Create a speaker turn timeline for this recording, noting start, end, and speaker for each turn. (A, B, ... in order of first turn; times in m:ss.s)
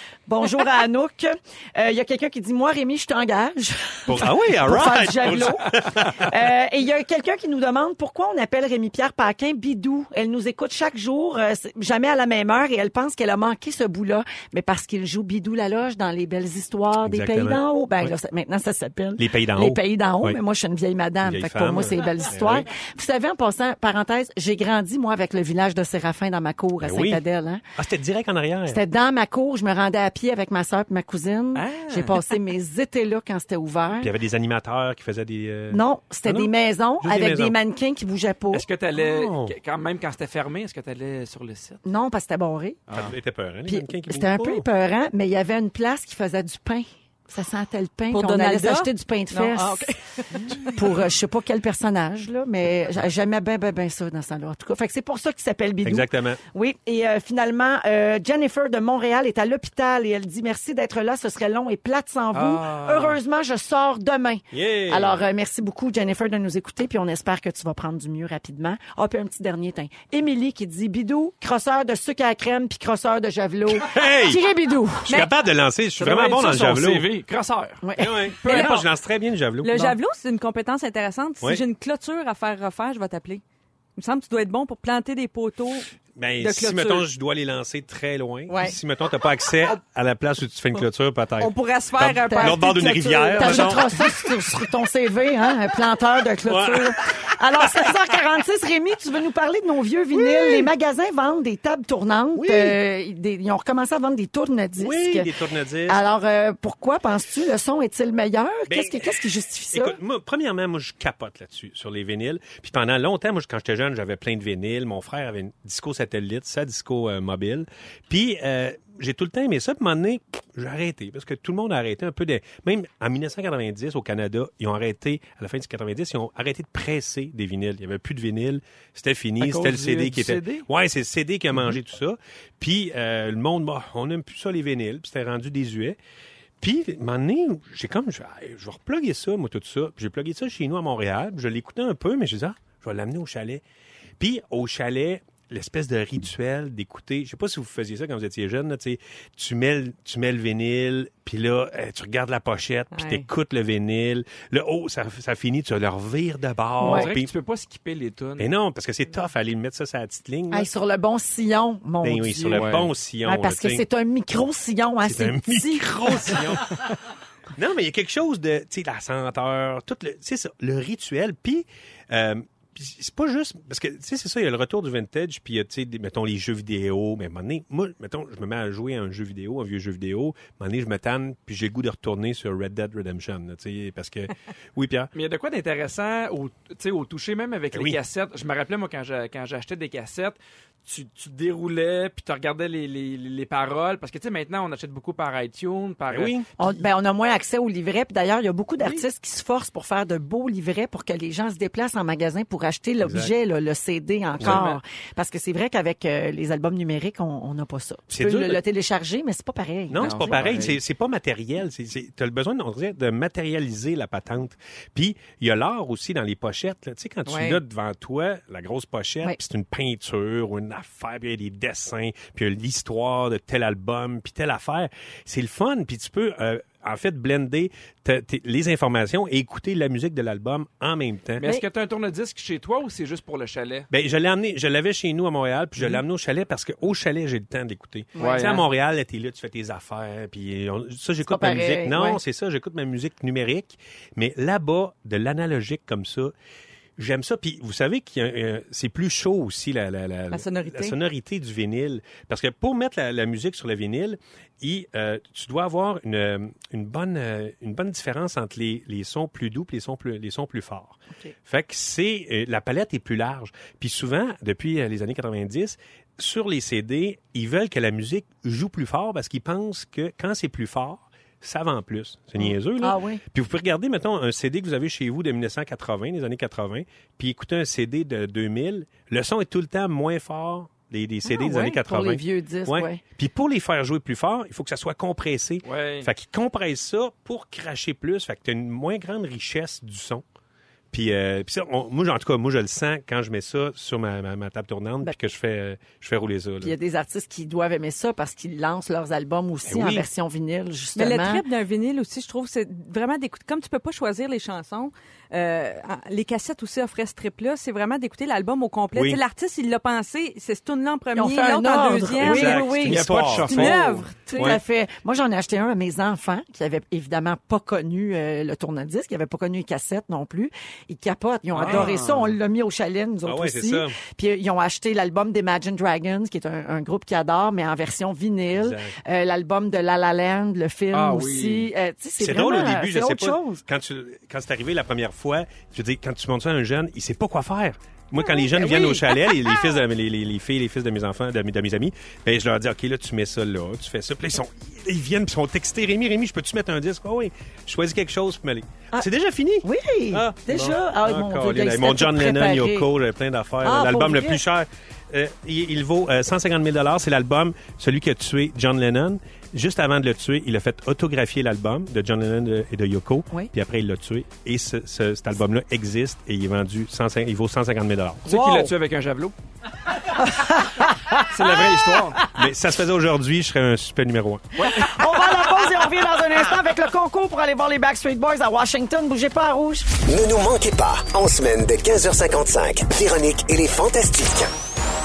0:00.3-0:27.6 A
0:04.1-0:06.3 B
0:17.0-0:18.1 B
0:19.2-0:20.4 B
0:21.2-0:22.7 B
0:26.8-0:27.2 B
0:27.8-0:28.8 B
0:28.7-0:34.1 A
0:31.6-0:32.2 C
0:34.0-0:37.6 B
0:35.7-0:38.7 A
0:38.5-0:41.8 C
0:39.0-0:39.6 B
0:41.8-0:42.8 A
0:42.9-0:44.7 B
0:43.7-0:49.9 A
0:48.1-0:50.8 D
0:50.7-1:15.1 A
0:55.8-0:56.4 B
1:02.3-1:03.2 C
1:04.5-1:05.2 B
1:13.8-1:14.4 B
1:15.0-1:17.1 B
1:16.0-1:17.8 C
1:17.8-1:18.7 A
1:18.0-1:20.0 B
1:18.4-1:18.8 D
1:19.6-1:23.4 D
1:24.0-1:25.9 D
1:26.2-1:34.2 B
1:26.4-1:27.1 D
1:28.5-1:28.8 D
1:31.4-1:33.9 D
1:32.3-1:32.7 A
1:33.4-1:45.3 A
1:36.4-1:37.0 B
1:37.6-1:37.9 B
1:40.1-1:40.7 B
1:42.3-1:42.8 B
1:44.8-1:46.0 B
1:45.9-1:50.0 A
1:48.7-2:16.0 B
2:09.4-2:10.6 C
2:16.6-2:23.6 B
2:24.2-2:37.3 B
2:32.9-2:33.3 D
2:36.8-2:37.1 A
2:36.8-2:38.5 C
2:38.4-2:40.7 B
2:40.5-2:46.5 A
2:42.0-2:43.8 B
2:42.5-2:42.9 C
2:45.0-2:46.9 B
2:47.6-3:05.1 B
3:05.2-3:16.7 C
3:07.7-3:08.0 B
3:16.1-3:16.5 B
3:16.6-3:30.7 A
3:23.0-3:23.3 B
3:24.4-3:24.7 B
3:24.4-3:24.8 C
3:28.1-3:28.6 B
3:29.9-3:51.5 B
3:30.0-3:30.8 C
3:37.3-3:37.6 D
3:51.4-3:53.9 C
3:53.9-4:06.3 B
3:58.2-3:58.6 A
3:58.2-3:58.6 C
4:01.3-4:02.2 A
4:07.0-4:50.2 B
4:10.3-4:11.0 D
4:32.4-4:33.2 A
4:41.2-4:43.0 A
4:45.6-4:46.1 C
4:50.9-4:56.7 B
4:56.6-5:01.4 A
4:59.7-5:00.1 B
5:01.0-5:12.6 D
5:09.0-5:09.2 B
5:11.2-5:13.7 A
5:12.2-5:13.8 B
5:12.8-5:14.1 C
5:13.5-5:14.5 D
5:14.3-5:33.6 A
5:21.5-5:22.4 C
5:21.7-5:21.9 B
5:23.2-5:24.0 B
5:28.5-5:29.0 B
5:30.9-5:31.7 C
5:32.2-6:08.3 B
5:38.2-5:39.4 A
5:49.6-5:52.9 A
5:53.6-5:54.4 A
6:08.3-6:09.3 C
6:08.3-6:08.7 A
6:10.1-6:12.3 A
6:11.2-6:12.2 C
6:12.3-6:14.7 B
6:14.6-6:15.5 C
6:14.6-6:20.0 A
6:20.0-6:24.5 E